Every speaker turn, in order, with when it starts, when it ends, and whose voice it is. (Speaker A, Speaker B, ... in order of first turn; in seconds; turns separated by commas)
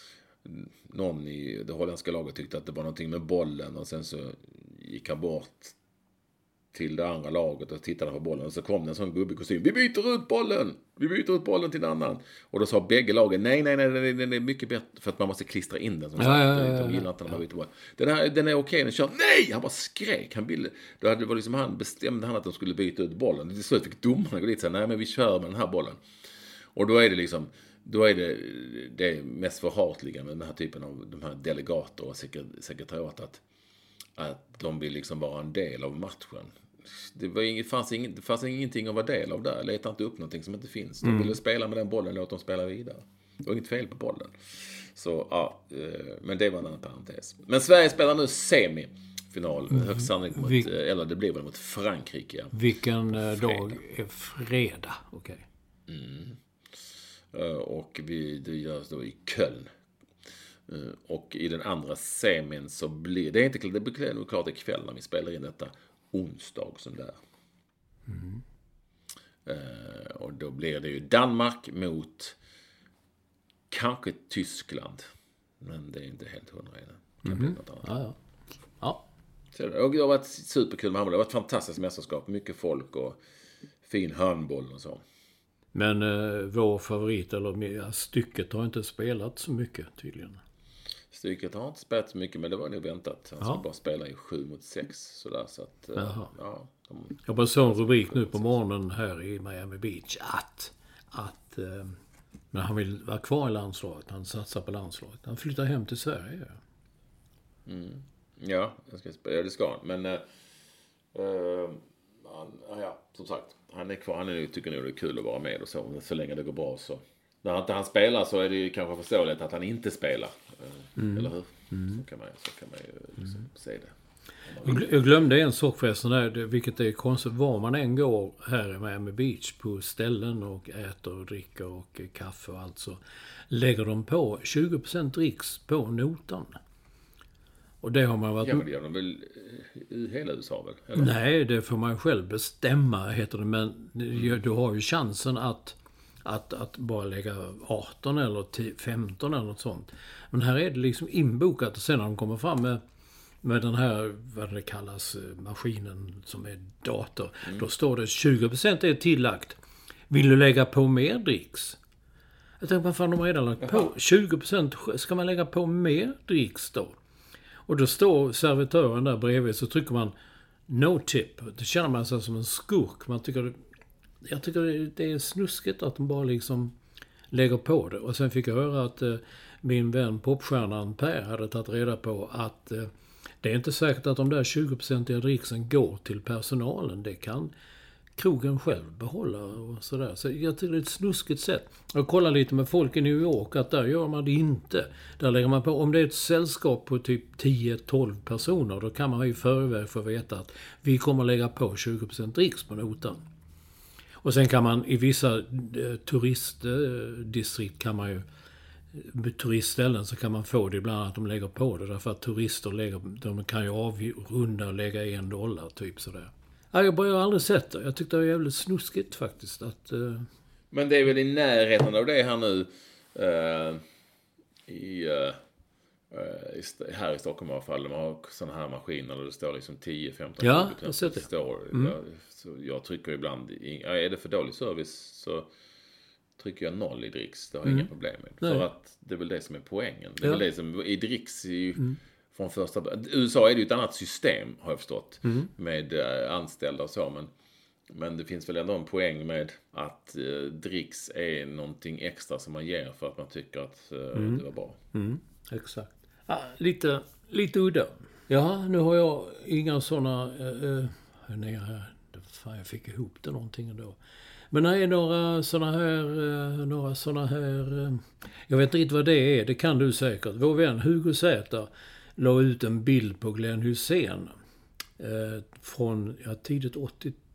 Speaker A: 0.5-5.8, Speaker A: 6.7-26.0, Speaker B: 16.2-17.4, Speaker A: 26.8-33.4, Speaker A: 34.2-52.6, Speaker B: 41.0-41.4, Speaker B: 49.7-50.7, Speaker B: 52.5-55.5, Speaker A: 53.2-53.8, Speaker A: 55.9-56.4, Speaker A: 57.3-59.7, Speaker A: 60.7-67.2, Speaker B: 68.1-68.4, Speaker A: 69.5-72.4, Speaker A: 73.7-75.1, Speaker A: 75.6-77.9, Speaker B: 77.2-78.2, Speaker A: 79.5-83.2, Speaker A: 83.8-85.0, Speaker B: 85.7-90.4, Speaker A: 91.1-98.6, Speaker B: 96.0-96.3, Speaker B: 97.3-102.0, Speaker B: 102.5-106.6, Speaker A: 107.7-110.2, Speaker A: 111.1-123.9, Speaker B: 121.0-122.0, Speaker A: 124.5-124.9, Speaker B: 124.6-133.0, Speaker B: 133.5-136.6, Speaker B: 137.8-138.7, Speaker A: 138.4-141.1, Speaker B: 141.0-152.8, Speaker B: 153.4-159.6, Speaker B: 160.1-161.8, Speaker B: 162.6-167.0, Speaker B: 167.7-170.1, Speaker B: 170.7-173.6, Speaker B: 174.2-176.7, Speaker B: 177.3-182.9, Speaker B: 183.4-187.5, Speaker B: 188.2-203.2, Speaker B: 204.2-208.2, Speaker B: 208.9-220.3, Speaker A: 220.7-223.8, Speaker A: 224.7-225.4, Speaker A: 226.1-235.5, Speaker B: 230.4-231.9, Speaker A: 236.4-247.3, Speaker B: 245.2-245.5, Speaker A: 247.9-254.8, Speaker B: 254.1-254.4, Speaker B: 254.9-264.0, Speaker B: 264.5-274.3, Speaker B: 275.0-277.2